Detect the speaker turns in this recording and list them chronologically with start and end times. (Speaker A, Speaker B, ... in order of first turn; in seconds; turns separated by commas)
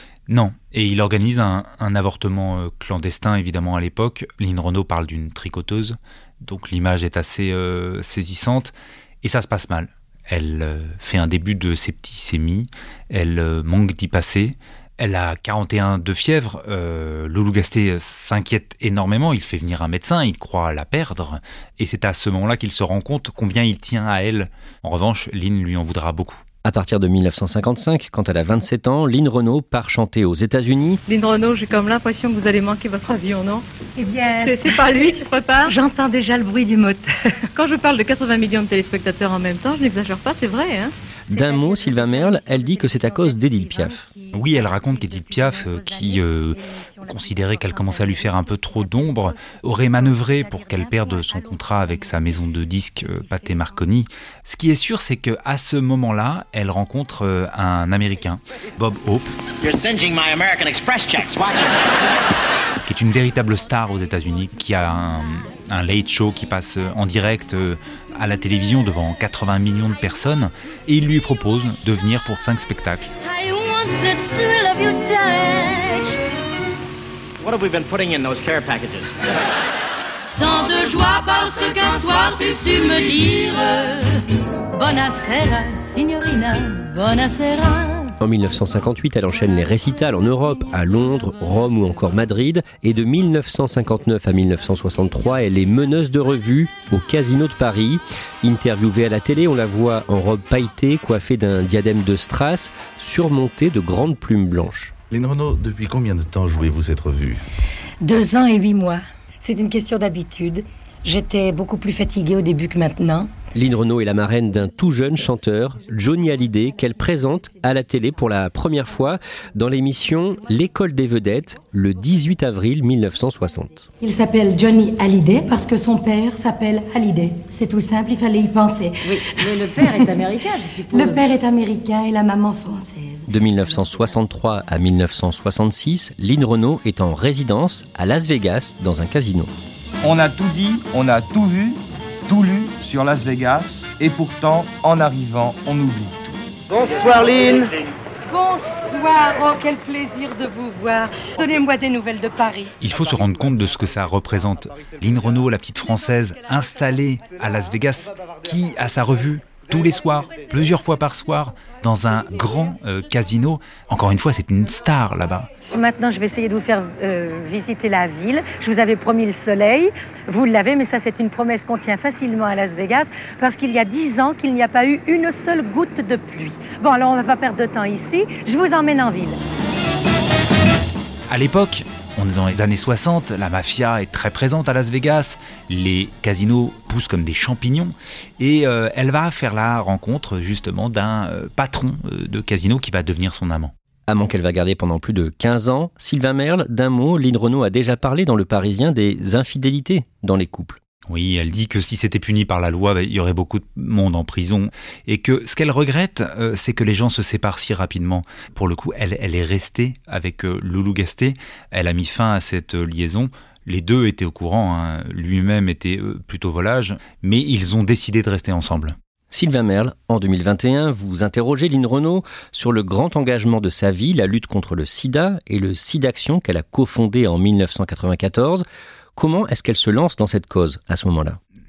Speaker A: 0.3-26.4, Speaker B: 26.6-31.0, Speaker C: 31.1-33.6, Speaker D: 34.0-37.0, Speaker C: 34.4-35.9, Speaker C: 37.5-40.9, Speaker B: 41.3-44.1, Speaker A: 44.3-59.4, Speaker E: 59.6-61.7, Speaker A: 62.8-73.1, Speaker F: 73.2-76.2, Speaker E: 77.4-79.2, Speaker F: 80.4-88.1, Speaker B: 88.2-104.9, Speaker G: 105.1-107.4, Speaker D: 108.0-113.3, Speaker B: 113.5-123.9, Speaker D: 124.0-133.3, Speaker B: 133.3-139.5, Speaker H: 140.0-147.6, Speaker D: 148.3-152.7, Speaker A: 152.8-165.5, Speaker D: 165.7-179.4, Speaker A: 181.3-193.7, Speaker B: 194.1-200.8, Speaker A: 201.1-218.9, Speaker B: 219.3-228.6, Speaker B: 229.2-231.4